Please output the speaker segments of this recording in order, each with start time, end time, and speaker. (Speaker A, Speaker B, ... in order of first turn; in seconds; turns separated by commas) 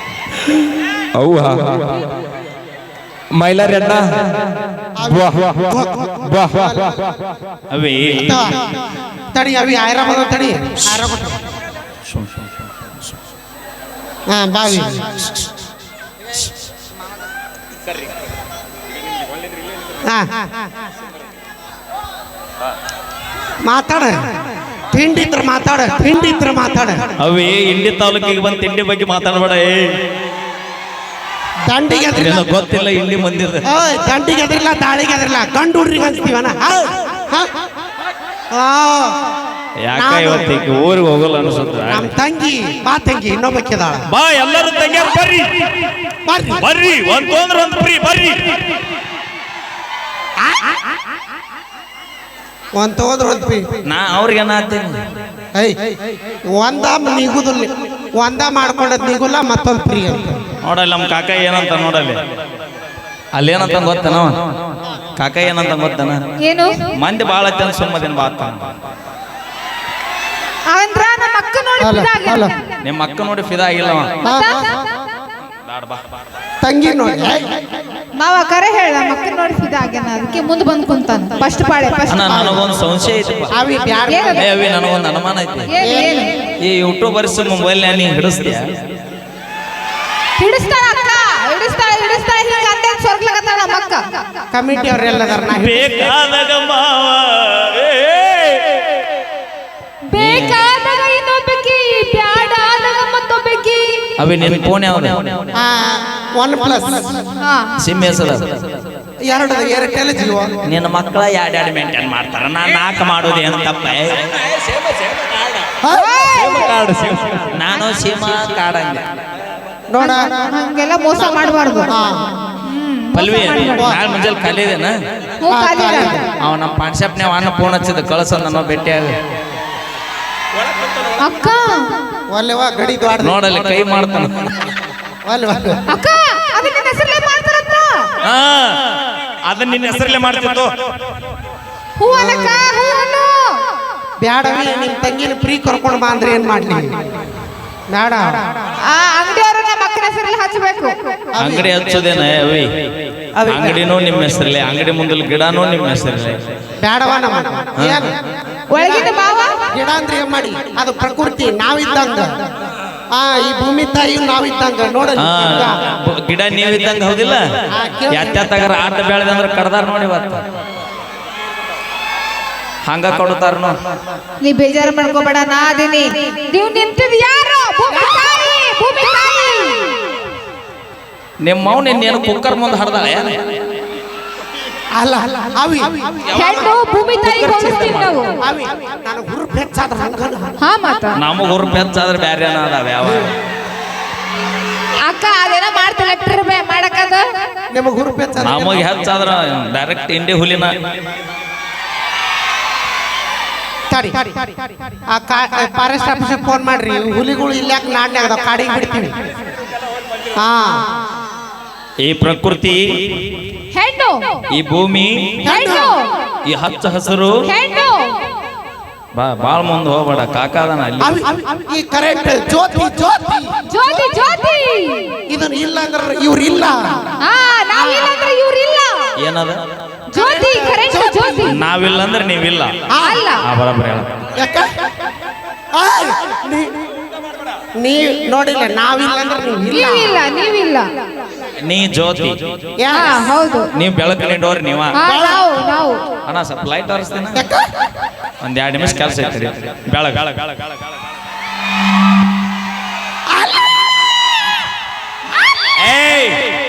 Speaker A: 1.2-2.0, Speaker A: 3.4-4.0, Speaker B: 5.0-7.0, Speaker A: 5.1-5.6, Speaker A: 6.3-6.7, Speaker C: 7.7-8.5, Speaker B: 8.2-8.8, Speaker B: 9.3-11.4, Speaker C: 12.1-12.4, Speaker B: 14.3-15.2, Speaker B: 20.1-20.6, Speaker B: 23.7-24.3, Speaker B: 24.9-27.2, Speaker C: 27.2-29.9, Speaker B: 31.7-32.5, Speaker C: 32.1-33.7, Speaker B: 33.7-37.5, Speaker B: 38.5-39.2, Speaker C: 39.8-42.1, Speaker B: 39.9-40.5, Speaker B: 41.9-44.0, Speaker C: 44.1-45.9, Speaker B: 46.2-46.7, Speaker C: 46.6-48.6, Speaker B: 52.8-53.7, Speaker C: 53.9-55.0, Speaker B: 55.5-56.0, Speaker B: 56.5-60.4, Speaker C: 60.6-62.2, Speaker C: 63.3-66.2, Speaker D: 66.4-67.0, Speaker C: 66.9-68.7, Speaker D: 70.7-72.6, Speaker B: 71.8-72.5, Speaker C: 72.8-74.1, Speaker D: 74.2-74.8, Speaker B: 74.2-74.8, Speaker C: 75.7-76.0, Speaker B: 76.6-77.5, Speaker D: 78.2-82.5, Speaker C: 82.1-83.6, Speaker B: 82.3-82.6, Speaker B: 83.5-84.4, Speaker D: 84.1-84.5, Speaker C: 84.3-85.7, Speaker D: 85.7-86.4, Speaker B: 85.8-86.3, Speaker C: 86.6-88.7, Speaker D: 90.4-94.0, Speaker B: 94.5-95.8, Speaker C: 95.5-99.0, Speaker D: 100.1-104.1, Speaker C: 100.1-100.6, Speaker C: 104.2-105.4, Speaker B: 105.5-107.2, Speaker D: 107.4-107.8, Speaker C: 107.8-108.6, Speaker B: 109.2-110.6, Speaker C: 110.7-114.4, Speaker B: 115.8-116.1, Speaker D: 115.9-116.8, Speaker C: 116.4-119.1, Speaker B: 119.9-120.4, Speaker D: 120.0-121.9, Speaker B: 121.3-122.4, Speaker D: 122.6-123.9, Speaker C: 123.1-124.9, Speaker B: 123.8-124.0, Speaker D: 125.4-126.3, Speaker B: 125.5-126.2, Speaker C: 126.4-129.1, Speaker D: 131.2-132.0, Speaker B: 132.3-133.4, Speaker C: 133.2-134.6, Speaker B: 135.3-135.8, Speaker D: 135.9-138.1, Speaker C: 138.2-138.8, Speaker C: 139.5-140.7, Speaker D: 142.0-143.6, Speaker B: 142.1-142.7, Speaker B: 144.2-146.9, Speaker B: 147.9-148.5, Speaker D: 148.9-151.1, Speaker B: 151.3-151.7, Speaker C: 151.4-152.7, Speaker B: 153.4-153.8, Speaker C: 153.5-156.4, Speaker B: 156.8-158.2, Speaker C: 157.8-158.1, Speaker D: 158.7-159.7, Speaker B: 158.7-162.3, Speaker B: 163.1-165.8, Speaker C: 165.2-167.4, Speaker B: 167.7-168.7, Speaker C: 168.1-170.4, Speaker C: 172.9-173.8, Speaker D: 174.4-179.8, Speaker C: 181.4-183.6, Speaker B: 184.9-186.5, Speaker C: 186.2-188.2, Speaker D: 186.3-188.3, Speaker B: 188.4-190.6, Speaker D: 190.6-191.2, Speaker C: 191.2-193.3, Speaker D: 195.0-197.2, Speaker B: 197.7-198.8, Speaker C: 198.4-200.7, Speaker B: 203.9-204.5, Speaker B: 205.1-209.1, Speaker B: 210.4-210.8, Speaker C: 212.0-213.3, Speaker D: 213.7-214.3, Speaker C: 214.5-215.4, Speaker B: 215.4-215.9, Speaker D: 215.4-216.1, Speaker C: 216.5-217.5, Speaker D: 217.4-218.2, Speaker C: 219.1-221.2, Speaker B: 221.0-224.0, Speaker D: 223.7-225.2, Speaker B: 225.3-227.1, Speaker D: 227.2-229.1, Speaker B: 227.8-228.1, Speaker C: 229.2-229.6, Speaker D: 230.1-231.6, Speaker B: 230.2-231.6, Speaker C: 231.4-232.8, Speaker B: 232.9-233.2, Speaker D: 232.9-233.4, Speaker C: 233.4-234.2, Speaker B: 234.3-234.7, Speaker B: 235.8-236.8, Speaker B: 237.8-240.2, Speaker D: 239.7-240.9, Speaker C: 241.6-242.4, Speaker B: 242.8-243.3, Speaker D: 242.9-243.7, Speaker C: 243.8-245.0, Speaker D: 244.9-246.0, Speaker B: 245.1-245.4, Speaker C: 246.3-247.4, Speaker B: 247.3-247.7, Speaker C: 248.4-250.7, Speaker B: 253.3-253.7, Speaker C: 255.8-256.4